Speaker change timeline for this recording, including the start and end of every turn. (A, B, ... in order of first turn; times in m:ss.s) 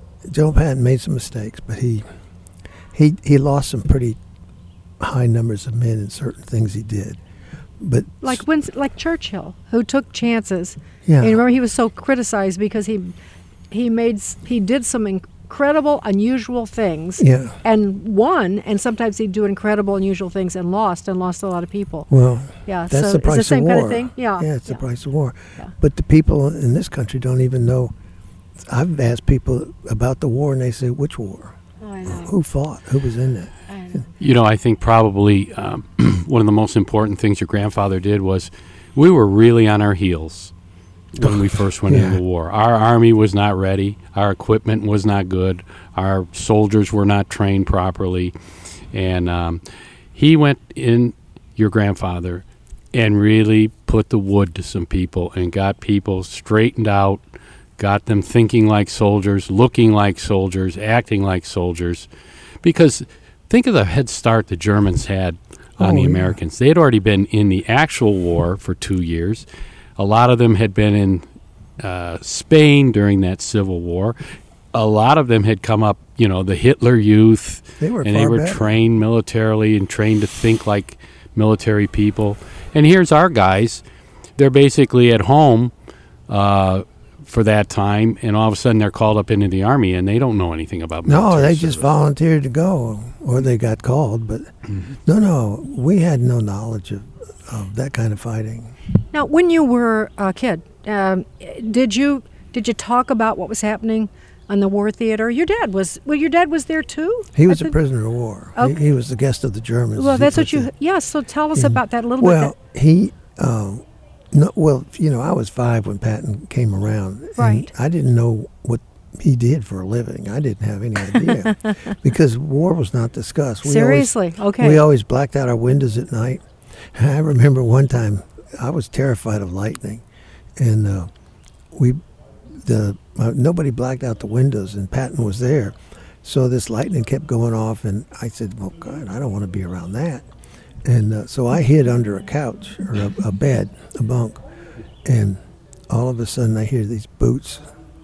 0:00.2-0:02.1 A
0:02.9-0:04.2 A
0:05.0-0:07.2 A
0:07.8-0:08.4 A
0:08.2-0:13.1 B
0:11.0-0:11.4 A
0:13.7-0:22.1 B
0:17.2-0:17.6 A
0:22.1-0:27.9 A
0:22.6-0:24.8 B
0:28.6-0:34.0 A
0:31.8-0:32.3 B
0:33.7-0:34.1 B
0:34.2-0:40.5 C
0:41.1-0:48.3 C
0:41.2-0:42.2 A
0:48.9-0:49.6 C
0:50.1-0:57.2 C
0:57.8-1:02.1 C
1:02.6-1:09.4 C
1:05.8-1:06.4 A
1:10.0-1:11.2 C
1:11.8-1:14.2 C
1:14.7-1:23.8 C
1:17.8-1:18.7 A
1:24.4-1:25.7 C
1:26.3-1:31.9 C
1:31.0-1:34.5 A
1:35.0-1:38.7 A
1:39.1-1:47.7 B
1:47.3-1:50.7 A
1:50.0-1:52.5 B
1:51.5-2:10.0 A
1:57.4-1:57.7 B
2:03.6-2:04.8 B
2:10.6-2:11.1 A
2:11.7-2:12.0 A
2:12.5-2:20.3 A
2:20.8-2:24.4 A
2:25.0-2:27.7 A